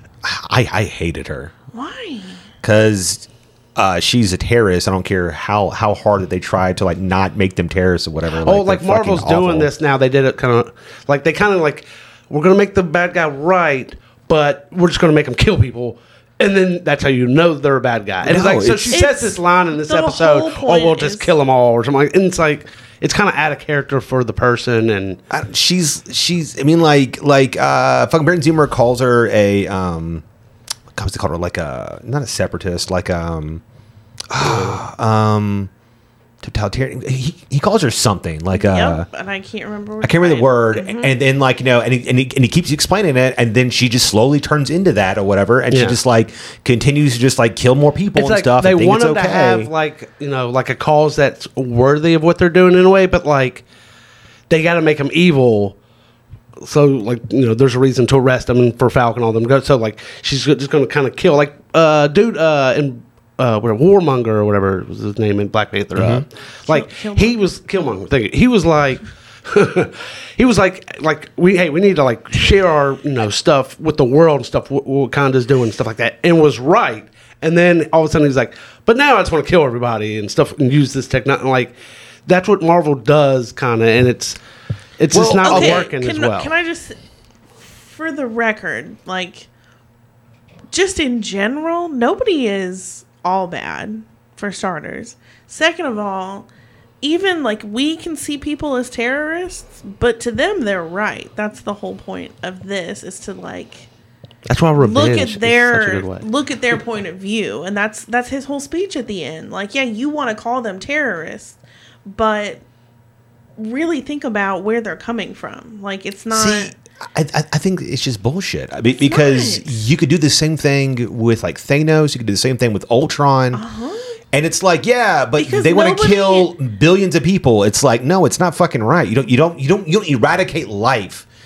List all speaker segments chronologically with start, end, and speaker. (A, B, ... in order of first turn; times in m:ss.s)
0:00.2-0:01.5 A
0:01.7-0:02.4 B
0:02.6-0:09.7 A
0:08.4-0:25.2 C
0:18.2-0:19.0 A
0:18.9-0:21.4 B
0:25.3-0:30.2 A
0:30.9-0:33.6 A
0:34.3-0:35.7 A
0:34.4-0:34.8 C
0:36.4-0:39.1 A
0:38.5-0:41.1 B
0:40.0-0:49.7 A
0:45.7-0:46.0 C
0:48.1-0:53.6 C
0:54.5-0:55.8 C
0:56.6-1:21.7 C
1:06.0-1:06.2 A
1:06.7-1:07.4 B
1:22.3-1:24.4 C
1:25.0-1:26.5 C
1:25.1-1:25.9 A
1:25.4-1:27.0 B
1:27.6-1:29.5 B
1:30.7-1:36.5 B
1:37.0-1:43.9 B
1:44.5-1:46.3 C
1:44.8-1:52.6 B
1:53.6-1:56.7 B
1:56.3-2:03.6 A
1:58.9-1:59.7 B
2:03.5-2:04.0 B
2:04.3-2:11.3 A
2:05.4-2:06.5 B